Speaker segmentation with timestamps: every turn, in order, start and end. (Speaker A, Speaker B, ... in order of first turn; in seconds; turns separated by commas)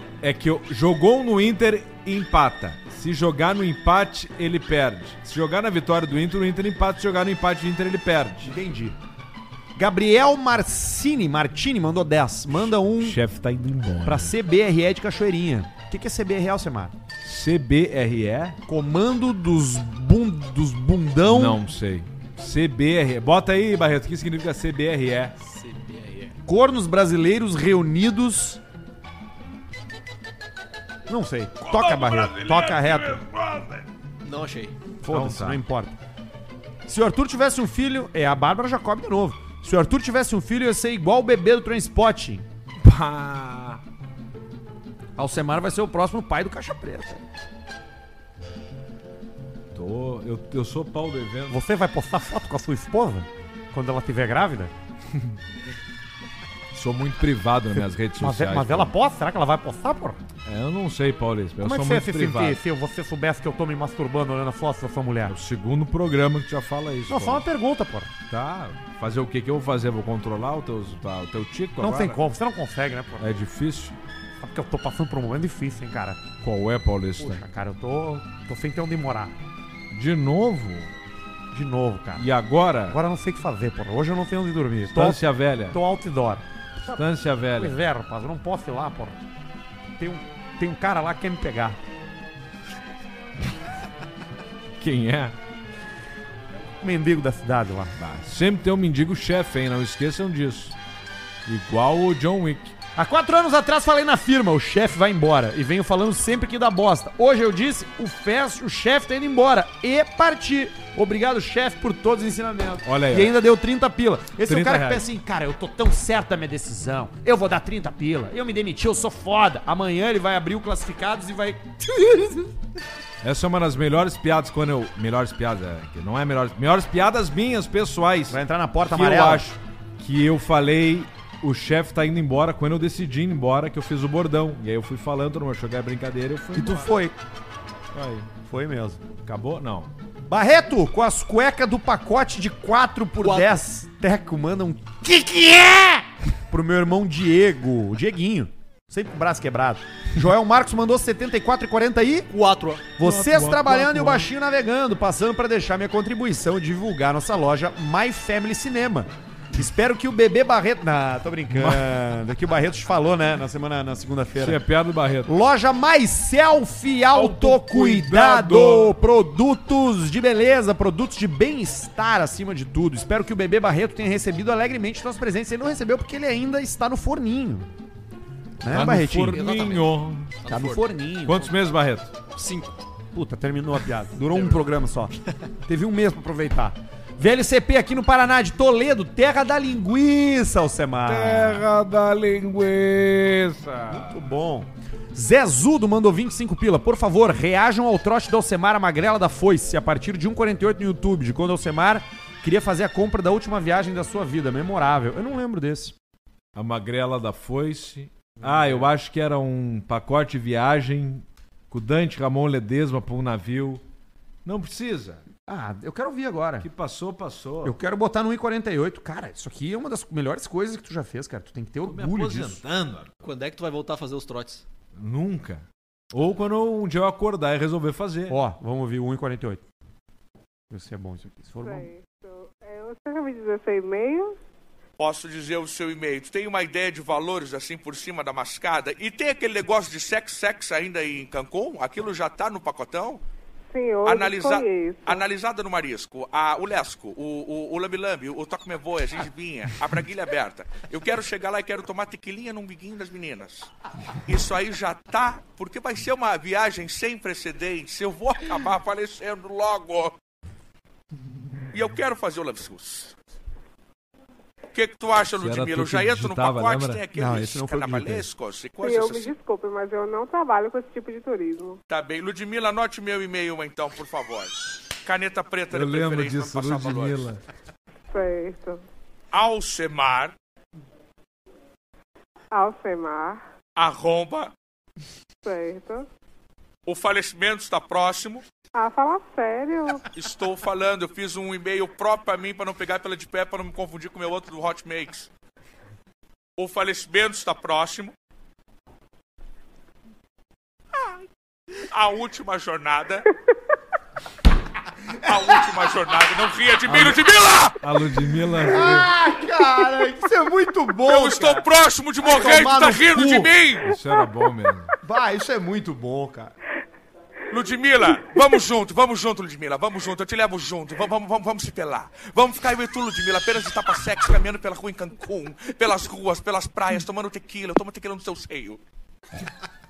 Speaker A: 0.2-8.6, Speaker B: 8.4-9.0, Speaker B: 9.8-13.2, Speaker A: 13.0-14.3, Speaker B: 14.1-16.9, Speaker A: 17.2-18.6, Speaker B: 18.7-21.6, Speaker A: 21.3-25.4, Speaker C: 25.4-26.4, Speaker B: 26.5-28.6, Speaker B: 31.1-33.2, Speaker A: 31.7-33.9, Speaker C: 34.2-34.8, Speaker B: 35.0-36.0, Speaker A: 35.1-35.6, Speaker B: 36.9-42.5, Speaker A: 42.8-43.8, Speaker B: 45.2-47.2, Speaker A: 49.7-51.6, Speaker B: 51.5-54.7, Speaker A: 55.1-55.4, Speaker A: 56.7-58.9, Speaker B: 58.2-60.2, Speaker A: 60.5-62.6, Speaker B: 61.6-65.4, Speaker A: 65.3-67.5, Speaker B: 67.1-68.1, Speaker A: 68.3-72.2, Speaker B: 71.8-73.4, Speaker A: 73.2-74.0, Speaker B: 74.4-76.2, Speaker A: 76.4-77.4, Speaker B: 77.2-79.4, Speaker A: 79.9-80.9, Speaker B: 81.5-82.3, Speaker A: 82.2-83.0, Speaker B: 82.9-89.2, Speaker A: 84.9-85.8, Speaker A: 86.9-87.8, Speaker B: 90.0-91.8, Speaker A: 94.8-95.4, Speaker B: 96.8-98.0, Speaker A: 98.0-100.8, Speaker A: 101.5-102.7, Speaker B: 103.0-122.5, Speaker A: 112.8-113.4, Speaker A: 114.5-115.1, Speaker A: 123.2-136.9, Speaker B: 128.3-129.4, Speaker B: 136.5-137.2, Speaker A: 137.9-138.3, Speaker B: 138.4-139.0, Speaker A: 139.2-139.9, Speaker B: 140.3-152.3, Speaker C: 143.2-143.6, Speaker C: 152.3-152.9, Speaker B: 153.0-164.6, Speaker A: 153.0-154.3, Speaker A: 161.5-162.0, Speaker A: 164.4-165.3, Speaker B: 165.3-177.7, Speaker A: 167.1-169.0, Speaker B: 178.6-179.4, Speaker A: 178.7-180.4, Speaker C: 179.1-180.9, Speaker B: 180.5-181.5, Speaker A: 181.2-182.1, Speaker C: 182.3-182.8, Speaker B: 183.1-185.2, Speaker C: 184.3-184.6, Speaker B: 185.7-191.6, Speaker A: 191.1-194.2, Speaker B: 193.9-205.9, Speaker A: 206.6-213.8, Speaker B: 208.4-208.9, Speaker A: 214.4-215.2, Speaker B: 215.4-216.7, Speaker A: 216.6-217.8, Speaker B: 217.6-222.6, Speaker A: 221.8-223.2, Speaker C: 223.2-224.6, Speaker A: 225.0-228.4, Speaker B: 228.3-229.6, Speaker B: 230.7-231.9, Speaker D: 231.6-234.4, Speaker E: 235.0-243.2, Speaker D: 243.7-245.2, Speaker E: 244.1-253.7, Speaker E: 254.2-260.2, Speaker E: 261.7-263.1, Speaker E: 264.7-269.4, Speaker A: 265.3-267.0, Speaker B: 267.1-268.3, Speaker D: 268.8-271.8, Speaker E: 271.9-277.3, Speaker A: 275.7-277.4, Speaker D: 278.1-278.8, Speaker E: 279.3-280.4, Speaker D: 282.5-283.4, Speaker E: 283.8-284.5, Speaker D: 285.4-286.1, Speaker E: 286.9-288.4, Speaker D: 288.8-290.1, Speaker E: 290.1-295.3, Speaker E: 296.6-298.1, Speaker E: 301.8-303.3, Speaker B: 305.2-305.5, Speaker E: 305.2-307.8, Speaker A: 307.8-309.1, Speaker B: 308.6-311.7, Speaker E: 311.1-314.0, Speaker B: 312.2-313.5, Speaker A: 313.8-314.9, Speaker B: 315.0-316.5, Speaker E: 317.5-328.8